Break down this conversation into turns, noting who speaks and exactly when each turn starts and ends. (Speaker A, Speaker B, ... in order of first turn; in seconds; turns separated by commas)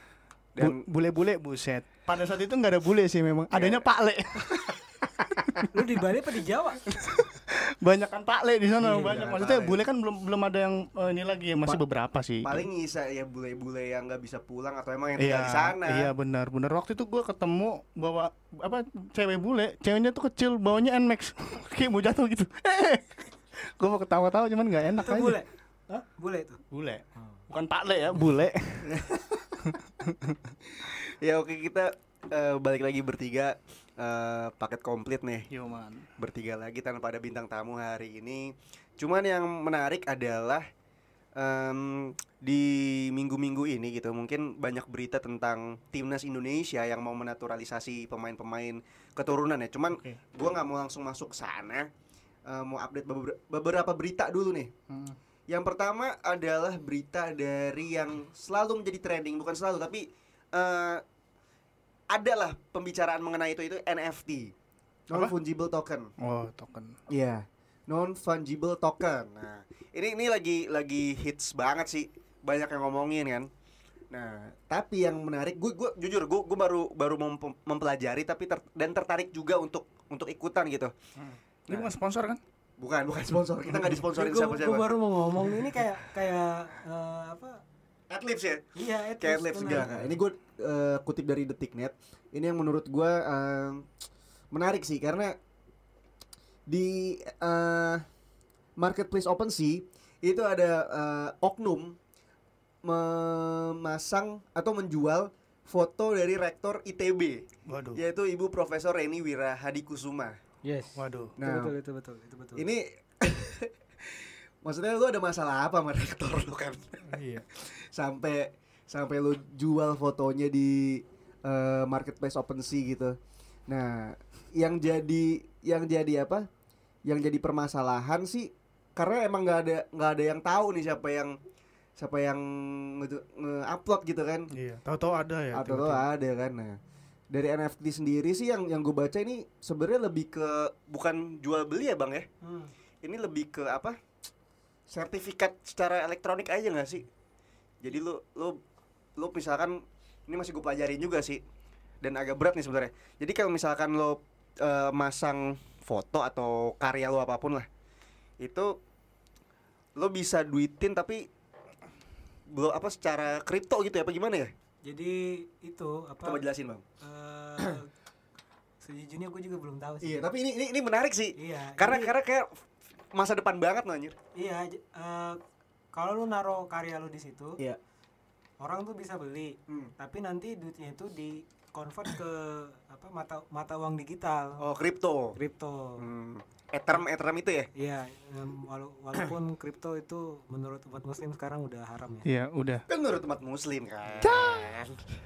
Speaker A: 0.6-0.8, Speaker B: 0.6-5.7, Speaker A: 3.5-3.8, Speaker C: 5.7-6.8, Speaker B: 6.9-12.7, Speaker A: 8.8-9.8, Speaker A: 12.4-16.1, Speaker B: 15.2-26.1, Speaker C: 25.0-25.5, Speaker C: 26.2-26.6, Speaker B: 26.7-29.0, Speaker C: 27.2-27.4, Speaker A: 28.8-29.7, Speaker B: 29.6-30.5, Speaker A: 30.7-35.5, Speaker B: 35.5-36.1, Speaker A: 36.2-40.7, Speaker A: 41.4-51.9, Speaker B: 49.9-50.2, Speaker A: 52.5-54.7, Speaker B: 54.9-55.2, Speaker A: 55.5-61.0, Speaker A: 62.1-64.5, Speaker A: 65.1-66.1, Speaker B: 66.2-67.0, Speaker A: 67.1-73.5, Speaker A: 74.1-80.9, Speaker B: 81.2-82.4, Speaker A: 82.8-84.9, Speaker C: 84.0-87.6, Speaker A: 88.1-88.7, Speaker C: 88.8-89.9, Speaker A: 89.2-93.9, Speaker B: 89.7-90.1, Speaker A: 94.5-95.4, Speaker A: 96.7-98.0, Speaker A: 98.8-102.0, Speaker A: 102.8-107.4, Speaker B: 107.7-108.0, Speaker A: 108.0-110.4, Speaker C: 110.6-112.7, Speaker B: 111.0-111.4, Speaker A: 111.4-111.7, Speaker A: 112.6-123.2, Speaker B: 117.1-117.5, Speaker A: 123.7-126.5, Speaker A: 127.1-131.4, Speaker A: 132.0-134.5, Speaker B: 134.5-136.1, Speaker A: 135.5-136.8, Speaker A: 137.3-142.3, Speaker C: 142.4-142.7, Speaker A: 143.0-144.0, Speaker A: 144.9-147.1, Speaker A: 147.8-148.6, Speaker A: 149.2-151.4, Speaker A: 152.0-157.7, Speaker A: 158.4-158.8, Speaker A: 160.0-161.3, Speaker A: 162.5-164.5, Speaker C: 164.8-166.4, Speaker A: 166.2-166.8, Speaker C: 167.0-167.9, Speaker C: 168.8-170.3, Speaker A: 170.0-174.2, Speaker C: 171.4-172.1, Speaker C: 174.3-175.4, Speaker C: 175.9-177.6, Speaker C: 178.6-184.6, Speaker A: 184.6-185.4, Speaker C: 185.4-186.0, Speaker A: 186.0-187.7, Speaker C: 187.8-192.3, Speaker B: 192.2-192.8, Speaker A: 192.9-194.5, Speaker B: 194.2-195.1